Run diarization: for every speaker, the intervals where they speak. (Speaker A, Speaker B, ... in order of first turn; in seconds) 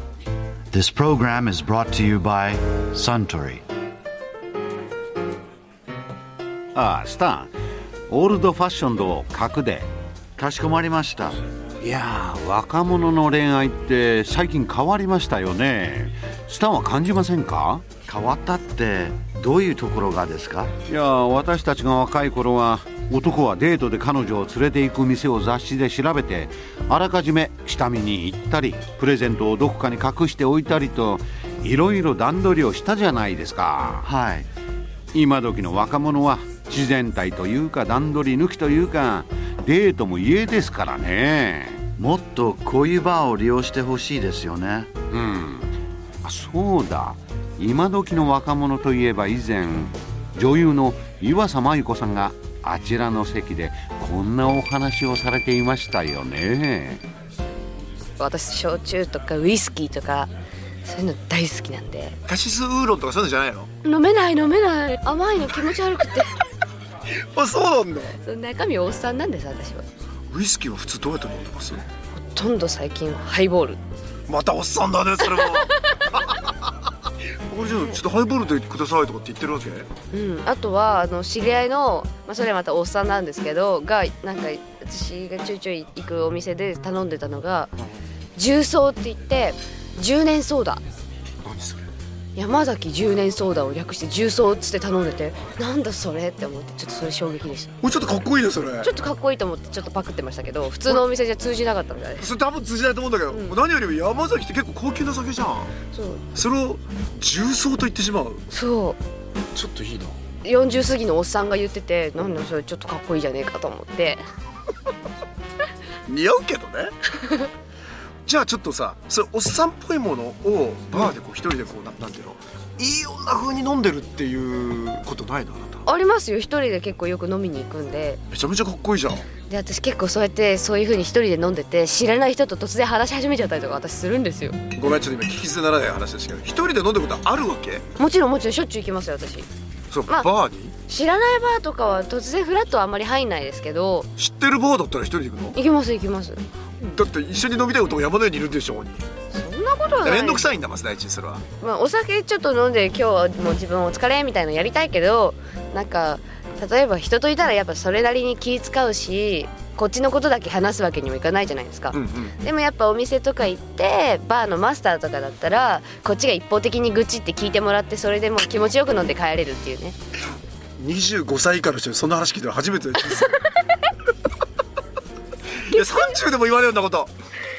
Speaker A: 0.7-3.6, 10.4-11.4, 18.1-20.8, 34.0-34.5, 42.0-44.9
Speaker B: 6.7-7.5, 8.1-9.9, 11.8-17.9, 20.9-34.1, 35.1-41.8, 45.1-45.7, 46.2-57.0
Speaker C: 58.2-60.3, 60.8-62.2, 63.8-66.3, 68.2-69.8, 72.1-73.8, 75.3-76.2, 80.1-87.7, 88.3-90.8, 92.3-97.8, 98.8-102.3, 105.9-106.2, 108.5-109.0, 110.4-114.2, 125.8-128.2, 129.5-134.6, 137.9-139.5, 140.9-144.1, 145.5-147.0, 149.3-150.4, 151.6-169.9
Speaker D: 62.3-63.7, 67.1-68.2, 70.3-71.8, 74.3-75.7, 77.5-79.9, 91.4-91.9, 97.8-98.9, 102.2-105.7, 106.3-108.4, 109.5-110.2, 116.1-116.9, 118.2-125.9, 128.3-129.3, 134.7-137.8, 139.9-140.7, 144.2-145.6, 146.9-149.0, 150.0-151.4, 161.9-162.3, 170.8-173.4, 175.5-177.1